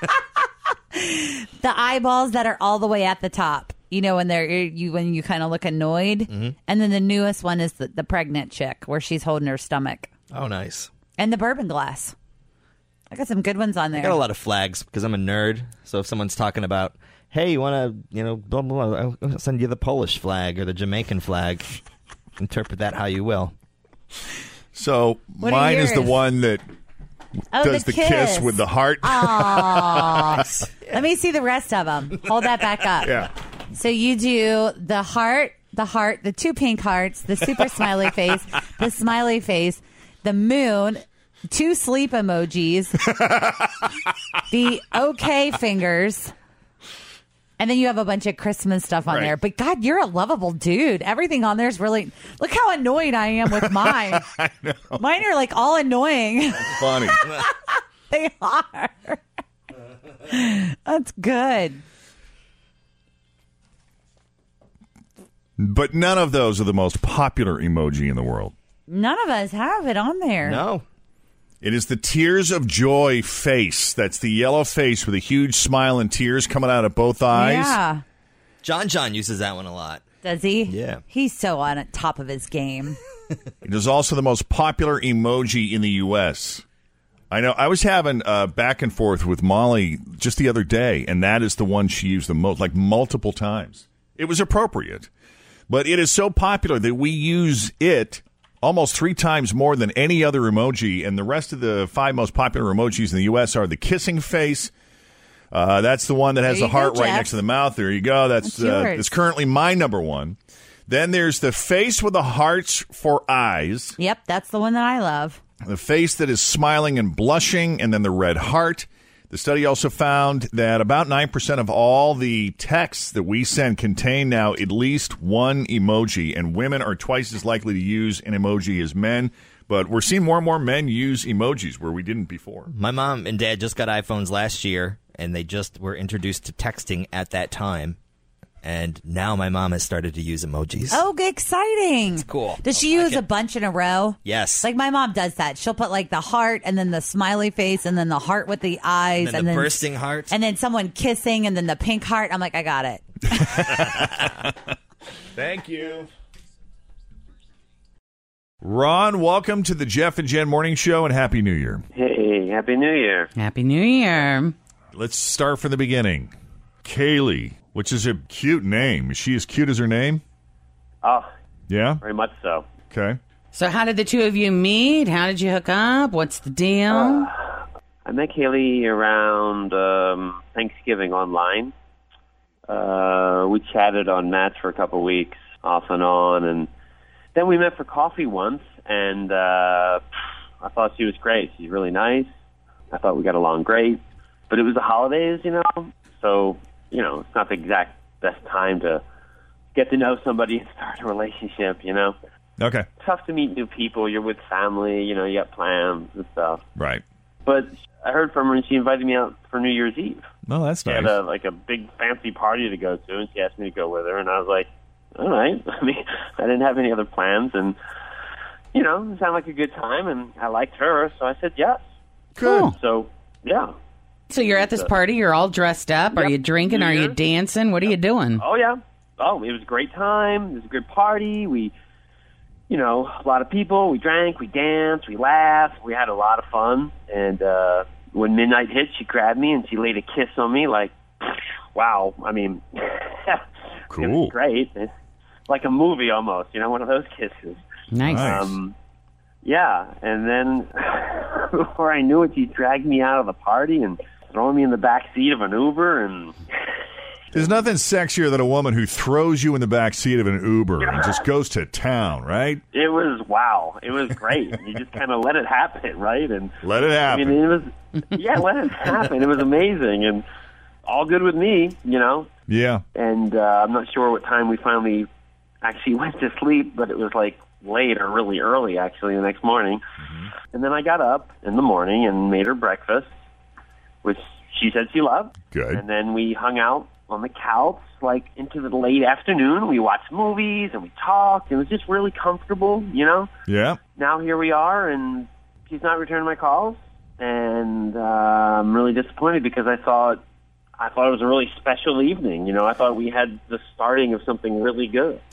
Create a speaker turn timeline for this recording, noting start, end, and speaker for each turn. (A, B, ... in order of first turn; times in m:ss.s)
0:00.9-0:10.1 A
0:06.3-0:06.6 B
0:10.3-0:10.9 B
0:11.2-0:12.1 A
0:13.1-0:14.2 A
0:14.0-0:21.7 B
0:22.4-0:23.5 B
0:24.7-0:26.6 C
0:25.4-0:26.2 A
0:27.5-0:43.1 A
0:27.6-0:30.4 C
0:33.0-0:33.3 C
0:44.5-0:46.3 A
0:47.6-0:54.3 A
0:49.1-0:49.3 C
0:53.6-0:55.0 C
0:55.0-0:59.2 A
0:56.7-0:57.2 C
1:00.3-1:01.8 A
1:05.6-1:08.5 C
1:08.9-1:10.6 A
1:10.4-1:10.8 B
1:11.6-1:17.8 C
1:17.3-1:18.0 A
1:18.6-1:20.0 B
1:20.2-1:23.0 A
1:20.7-1:21.0 B
1:23.6-1:26.6 C
1:27.3-1:35.1 C
1:35.7-1:44.7 C
1:45.5-1:54.0 C
1:46.4-1:47.3 A
1:48.4-1:49.1 A
1:54.0-1:55.4 A
1:55.6-2:12.7 C
2:12.7-2:18.0 B
2:18.6-2:21.0 B
2:20.9-2:33.8 A
2:22.2-2:23.2 B
2:24.2-2:24.7 B
2:29.2-2:30.3 B
2:35.4-2:36.1 C
2:38.6-2:41.8 C
2:42.0-2:43.3 D
2:43.4-2:44.6 E
2:44.9-2:46.3 C
2:46.8-2:50.2 C
2:51.0-2:51.3 D
2:51.7-2:52.0 C
2:52.0-2:52.7 D
2:52.9-2:53.2 C
2:53.5-2:57.3 E
2:56.9-2:57.5 D
2:58.0-3:01.7 D
3:02.7-3:06.7 D
3:07.4-3:10.0 D
3:10.6-3:12.3 D
3:12.9-3:19.0 D
3:19.7-3:22.2 D
3:22.6-3:22.9 C
3:23.0-3:26.6 D
3:26.8-3:27.0 C
3:27.5-3:30.3 D
3:30.5-3:31.2 C
3:30.8-3:37.8 D
3:38.7-3:41.8 D
3:42.4-3:42.7 C
3:42.4-3:42.8 E
3:42.8-3:43.7 D
3:44.3-3:48.4 E
3:44.4-3:44.9 D
3:46.1-3:47.2 D
3:48.4-3:51.7 D
3:52.7-4:03.4 D
4:03.9-4:04.3 C
4:04.0-4:04.9 D
4:05.5-4:08.7 D
4:07.9-4:08.4 E
4:08.1-4:08.6 C
4:09.4-4:16.4 D
4:17.3-4:22.6 C
4:20.8-4:21.2 D
4:22.7-4:26.6 D
4:26.6-4:27.4 C
4:27.1-4:30.2 D
4:30.8-4:32.3 D
4:32.5-4:32.8 C
4:33.0-4:35.1 D
4:35.6-4:39.8 D
4:40.0-4:40.3 C
4:40.5-4:43.1 D
4:44.0-4:53.3 D
4:45.5-4:45.8 C
4:53.5-4:53.8 C
4:54.0-5:00.2 D
5:00.8-5:05.2 D